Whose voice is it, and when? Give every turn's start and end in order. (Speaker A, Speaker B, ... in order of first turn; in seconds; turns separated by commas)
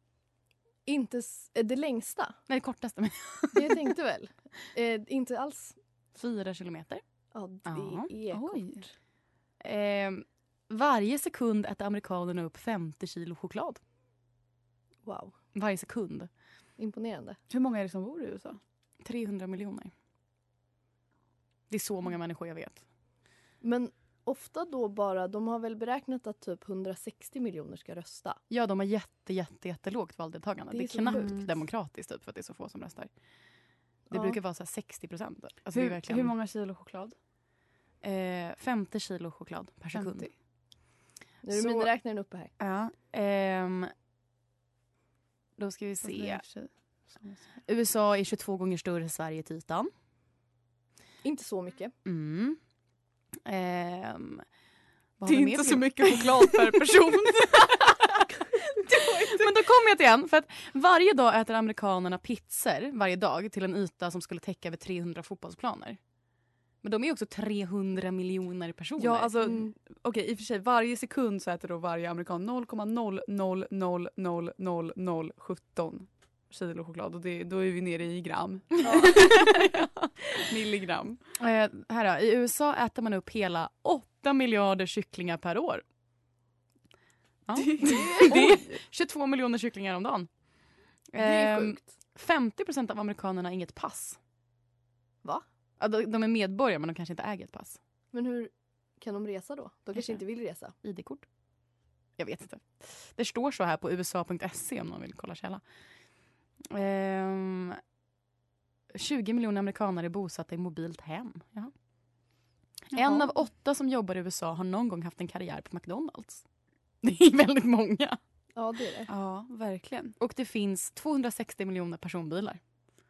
Speaker A: 0.8-2.4, Speaker B: 2.5-3.7, Speaker A: 3.5-5.8, Speaker B: 6.1-7.0, Speaker A: 7.3-8.9, Speaker B: 7.6-8.1, Speaker C: 8.3-8.8, Speaker B: 9.6-13.8, Speaker A: 15.0-15.3, Speaker B: 15.5-16.3, Speaker A: 16.8-17.4, Speaker C: 17.5-18.6, Speaker B: 19.0-19.9, Speaker B: 21.7-22.8, Speaker A: 23.6-28.4, Speaker B: 28.5-33.1, Speaker A: 30.7-31.4, Speaker C: 31.0-31.5, Speaker A: 34.1-34.4, Speaker B: 34.1-36.3, Speaker C: 35.7-37.1, Speaker B: 38.0-40.3, Speaker C: 39.9-40.3, Speaker A: 41.4-42.5, Speaker B: 41.5-41.9, Speaker C: 42.6-42.9, Speaker B: 43.1-43.9, Speaker B: 45.6-46.4, Speaker C: 46.0-47.6, Speaker B: 47.6-49.9, Speaker A: 51.2-51.9, Speaker B: 52.0-52.6, Speaker B: 53.5-54.4, Speaker B: 55.2-58.2, Speaker C: 55.2-57.8, Speaker C: 58.6-59.5, Speaker B: 58.9-66.0, Speaker B: 66.8-69.3, Speaker C: 69.0-81.2, Speaker A: 69.4-69.7, Speaker B: 78.8-79.9, Speaker B: 81.4-85.8, Speaker B: 87.5-90.3, Speaker C: 87.5-88.7, Speaker B: 91.1-94.2, Speaker A: 91.2-91.9, Speaker B: 95.8-97.8, Speaker A: 98.1-100.7, Speaker B: 100.0-100.2, Speaker B: 100.7-101.3, Speaker B: 102.2-105.6, Speaker B: 106.7-107.8, Speaker B: 108.9-111.7, Speaker B: 112.9-116.4, Speaker C: 112.9-113.2, Speaker B: 117.0-118.2, Speaker A: 118.5-119.1, Speaker C: 119.1-120.1, Speaker B: 120.2-122.6